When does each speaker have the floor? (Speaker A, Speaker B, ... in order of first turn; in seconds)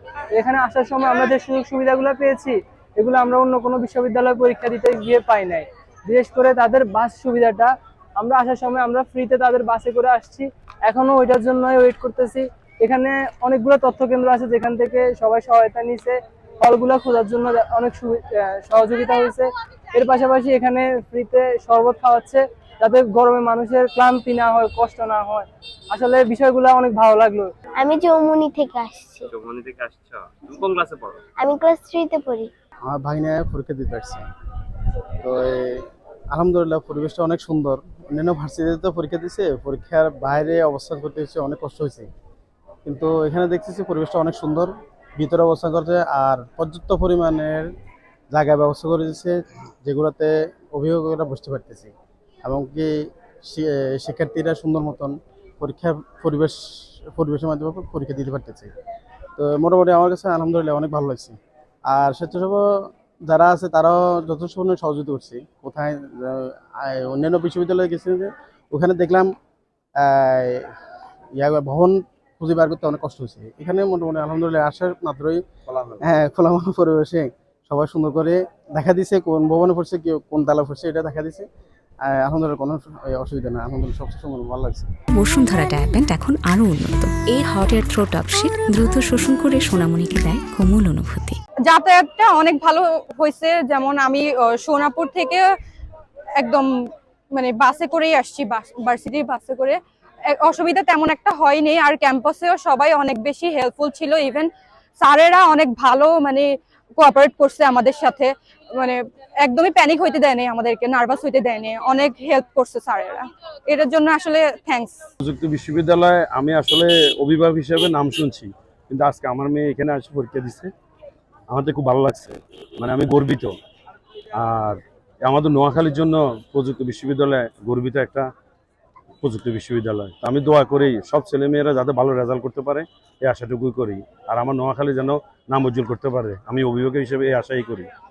Speaker A: 0.3-27.5
Speaker B: 27.8-29.3, 31.4-32.5
Speaker C: 29.3-31.2, 75.7-76.0
Speaker D: 32.9-34.2, 35.2-42.1, 42.9-47.7, 48.3-51.9, 52.4-58.7, 59.4-69.3, 70.0-70.8, 71.3-75.4, 76.0-81.5, 82.0-84.9
Speaker E: 85.1-91.4
Speaker F: 91.7-95.4, 96.4-96.7, 97.3-99.8, 100.3-104.5, 105.0-115.0
Speaker G: 115.2-120.7, 121.5-123.5, 124.3-128.3, 129.2-137.9